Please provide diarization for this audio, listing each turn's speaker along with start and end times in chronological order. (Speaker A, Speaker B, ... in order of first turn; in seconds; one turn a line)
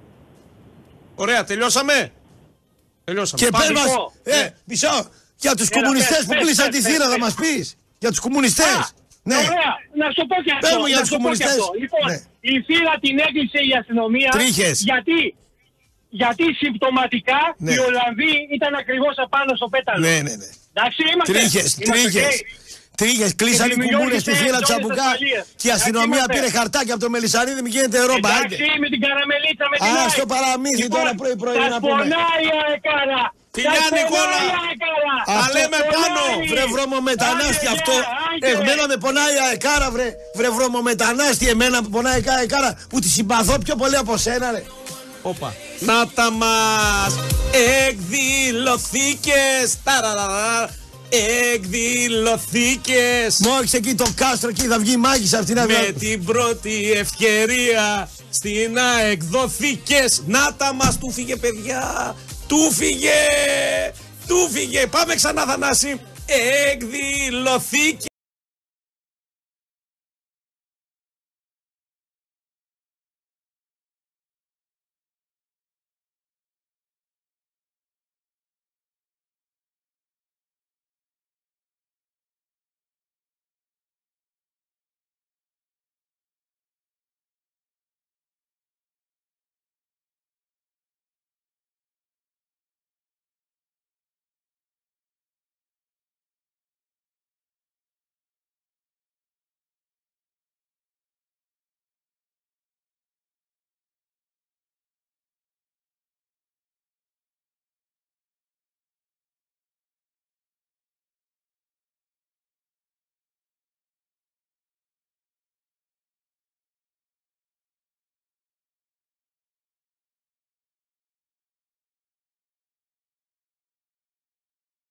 Speaker A: 1.2-2.1
Speaker A: 3.1-4.5
Speaker B: 3.4-9.5
Speaker C: 3.5-4.1
Speaker C: 5.7-7.3
Speaker C: 8.6-15.3
Speaker B: 10.6-12.2
Speaker B: 14.3-14.9
Speaker C: 16.1-20.1
Speaker B: 17.6-17.9
Speaker B: 19.9-20.5
Speaker C: 20.7-22.5
Speaker B: 21.2-22.4
Speaker B: 23.0-28.6
Speaker C: 23.5-26.5
Speaker C: 28.1-30.2
Speaker B: 29.8-32.2
Speaker C: 30.8-38.8
Speaker A: 33.5-34.6
Speaker B: 35.3-44.7
Speaker A: 35.3-36.5
Speaker A: 45.2-53.5
Speaker B: 53.4-56.1
Speaker A: 55.6-68.1